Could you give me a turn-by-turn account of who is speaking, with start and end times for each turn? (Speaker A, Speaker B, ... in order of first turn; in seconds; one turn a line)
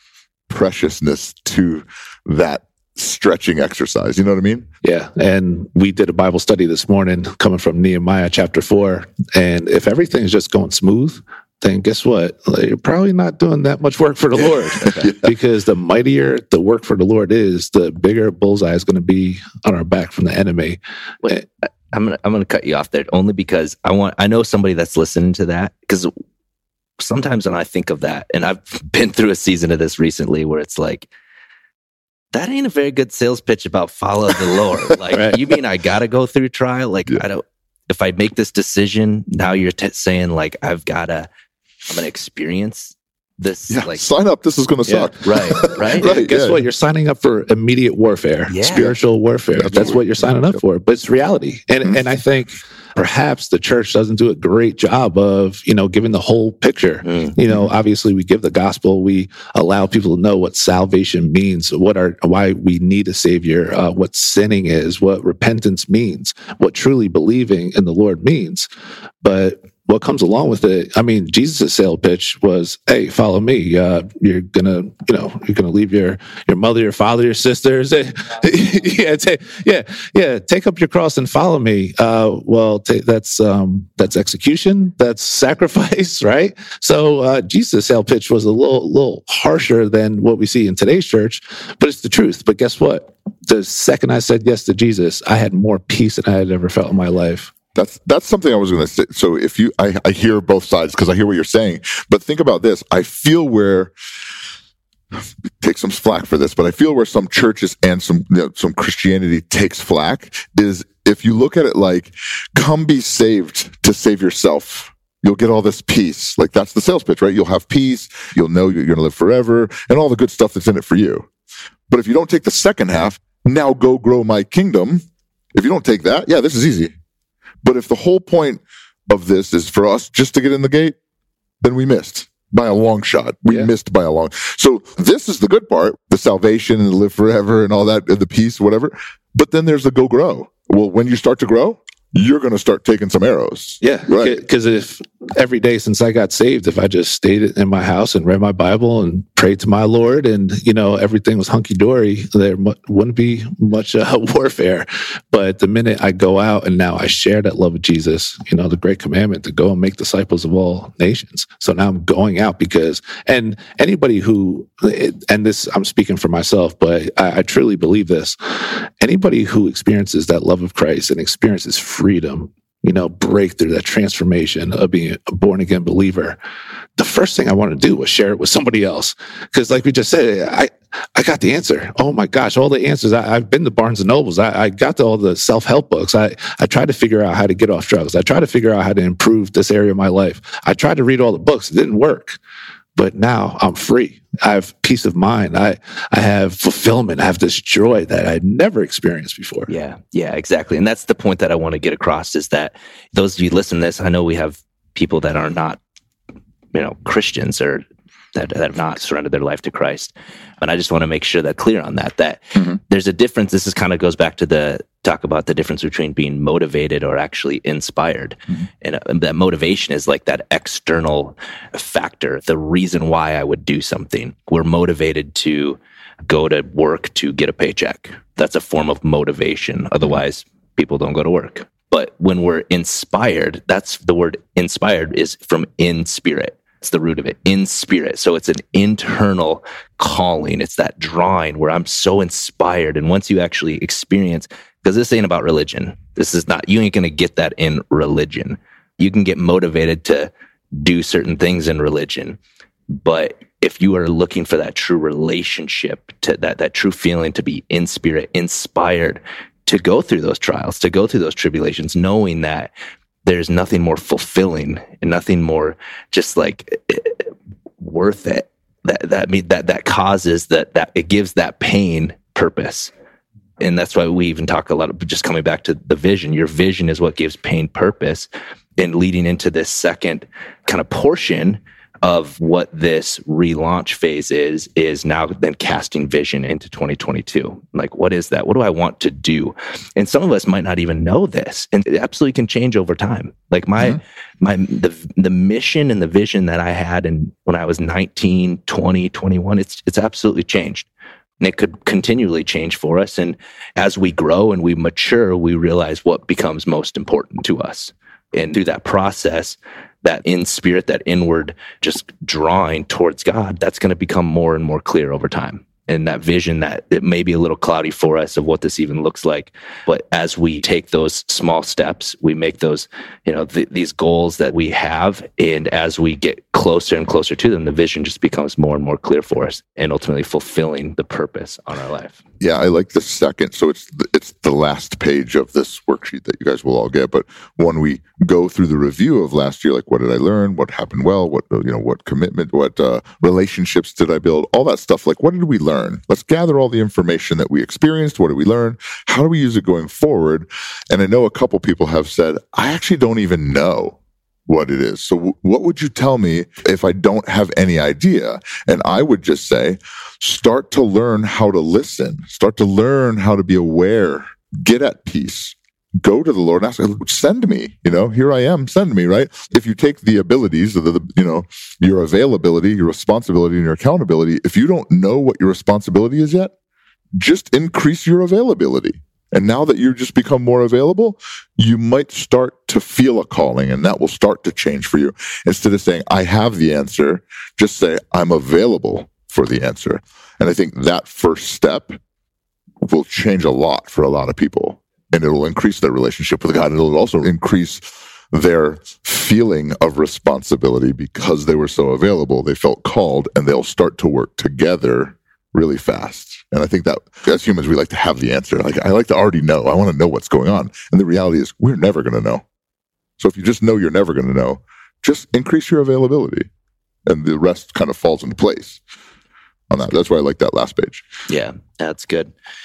Speaker A: 0.5-4.7
Speaker B: 4.8-21.4
Speaker C: 21.9-26.1
Speaker C: 27.0-31.1
Speaker C: 32.3-41.3
Speaker B: 35.1-35.4
Speaker C: 41.9-44.0
Speaker A: 43.7-46.6
Speaker B: 44.9-68.7
Speaker C: 45.2-46.1
Speaker C: 48.5-48.9
Speaker A: 48.7-49.0
Speaker A: 49.5-50.6
Speaker C: 57.0-57.4
Speaker B: 69.2-97.5
Speaker A: 97.8-103.9
Speaker A: 105.6-121.3
Speaker A: 121.9-125.0
Speaker A: 125.5-126.9
Speaker A: 127.6-131.0
Speaker A: 131.6-144.4
Speaker B: 143.8-176.4
Speaker B: 177.0-192.4
Speaker B: 193.0-199.7
Speaker C: 199.7-205.8
Speaker C: 206.7-252.4
Speaker C: 252.9-262.7
Speaker C: 263.2-272.9
Speaker C: 273.6-300.9
Speaker C: 301.4-332.2
Speaker A: 332.4-354.0
Speaker A: 354.5-376.5
Speaker A: 377.2-392.0
Speaker A: 392.8-412.4
Speaker A: 413.2-416.5
Speaker A: 417.1-418.8
Speaker A: 419.7-421.1
Speaker C: 421.3-422.3